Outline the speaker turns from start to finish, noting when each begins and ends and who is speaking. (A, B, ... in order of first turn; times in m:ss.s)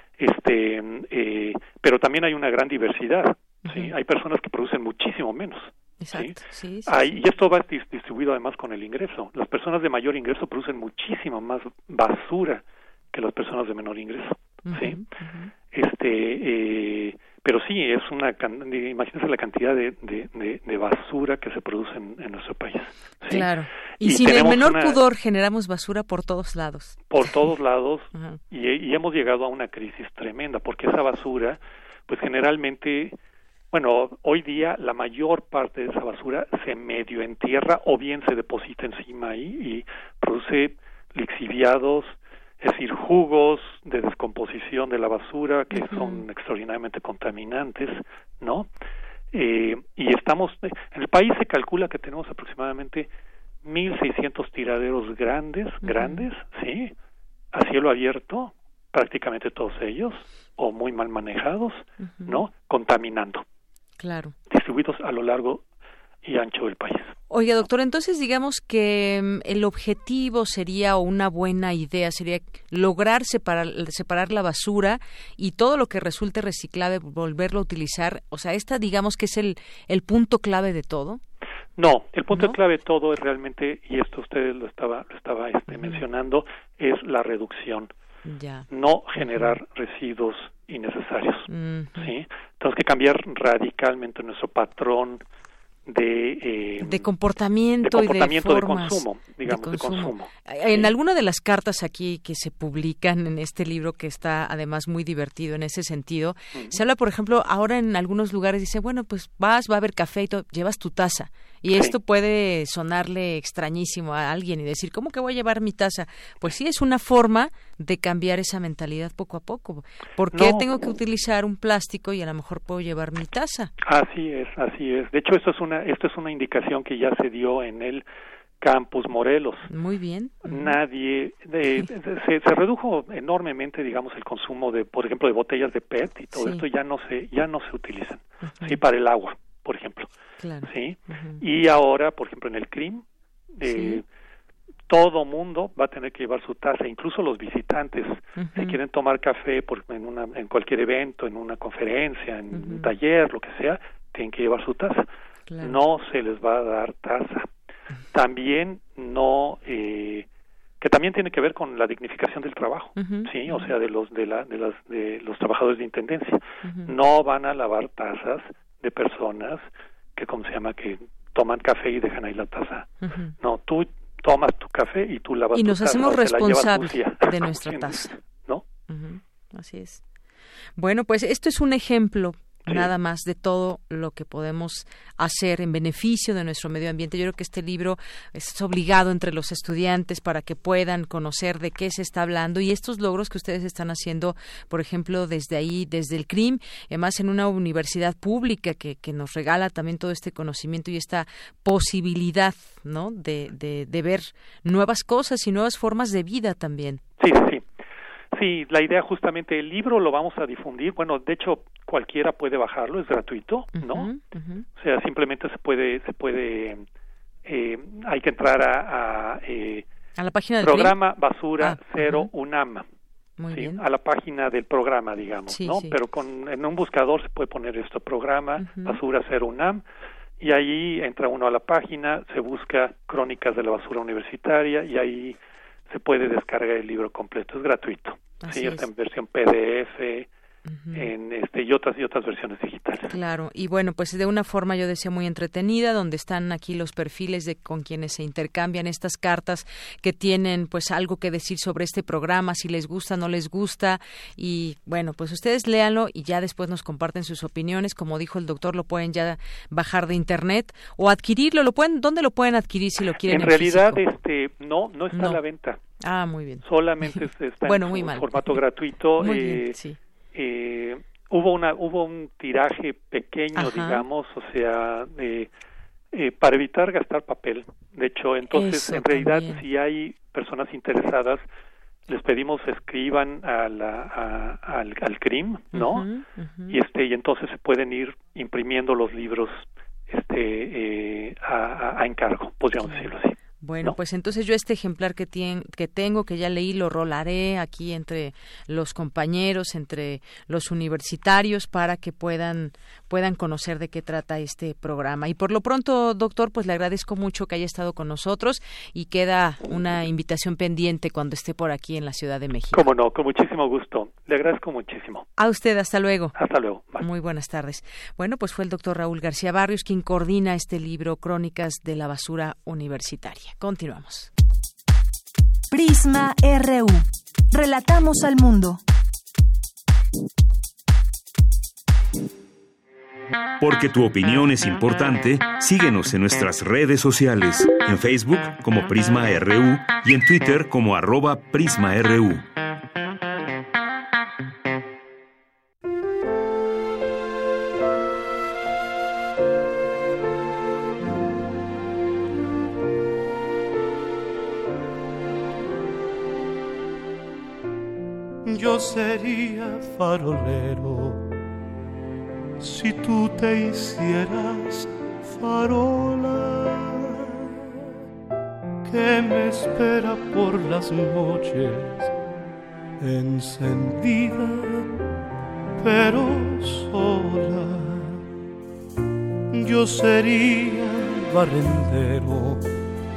0:00.2-0:15.0 A
0:03.6-0:03.9 B
0:06.0-0:07.1 B
0:14.7-0:15.5 B
0:15.7-0:25.0 A
0:23.3-0:27.3 B
0:27.1-0:33.1 A
0:28.1-0:28.4 B
0:33.7-0:48.7 A
0:45.7-0:46.2 B
0:49.3-0:53.1 A
0:53.6-0:56.9 A
0:55.8-0:56.3 B
0:57.5-1:03.4 A
1:02.0-1:02.4 B
1:04.0-1:04.3 B
1:04.5-1:05.6 A
1:06.2-1:07.1 A
1:07.3-1:21.2 B
1:21.8-1:27.9 A
1:22.3-1:22.6 B
1:25.7-1:26.0 B
1:28.2-1:29.6 B
1:28.7-1:35.2 A
1:31.5-1:32.1 B
1:35.9-1:37.1 A
1:36.8-2:03.7 B
1:37.8-1:40.9 A
1:46.5-1:46.8 A
1:51.7-1:52.0 A
2:00.3-2:00.7 A
2:03.9-2:08.0 A
2:08.6-2:09.7 A
2:09.7-2:10.8 B
2:10.4-2:20.1 A
2:16.3-2:16.6 B
2:18.4-2:18.8 B
2:20.4-2:21.4 B
2:20.6-2:23.0 A
2:23.6-2:24.0 A
2:23.6-2:24.0 B
2:24.9-2:35.1 A
2:28.4-2:28.8 B
2:32.5-2:32.9 B
2:35.5-2:35.8 B
2:35.6-2:37.5 A
2:38.1-2:40.3 A
2:40.8-2:58.6 A
2:43.0-2:43.7 B
2:46.6-2:46.9 B
2:53.0-2:53.3 B
2:55.5-2:58.2 B
2:58.9-3:00.0 B
3:00.8-3:27.0 B
3:02.6-3:02.9 A
3:27.2-3:27.6 A
3:28.3-3:34.1 A
3:33.7-3:34.6 B
3:34.8-3:36.8 A
3:37.4-3:39.8 A
3:40.2-3:41.0 B
3:40.6-3:42.8 A
3:41.6-3:42.3 B
3:43.4-3:43.8 B
3:43.5-3:49.8 A
3:45.5-3:46.0 B
3:48.6-3:49.0 B
3:50.4-3:55.4 A
3:55.9-4:00.3 A
3:58.4-3:58.9 B
4:00.7-4:01.1 B
4:00.9-4:03.2 A
4:03.1-4:24.0 B
4:23.2-4:25.8 A
4:25.1-4:25.4 B
4:26.0-4:28.6 B
4:26.6-4:29.8 A
4:29.2-4:30.0 B
4:30.3-4:35.5 A
4:33.6-4:34.0 B
4:36.1-4:41.4 A
4:38.5-4:39.6 B
4:42.1-4:46.1 A
4:45.7-4:46.8 B
4:46.7-4:54.0 A
4:52.8-5:12.8 B
5:12.7-5:15.2 A
5:15.4-5:16.4 B
5:16.3-5:17.0 A
5:17.0-5:24.3 B
5:25.7-5:28.8 C
5:33.6-5:42.5 D
5:58.4-6:01.2 E
6:02.6-6:07.3 E
6:08.8-6:12.1 E
6:13.0-6:14.9 E
6:15.8-6:18.2 E
6:19.5-6:22.6 E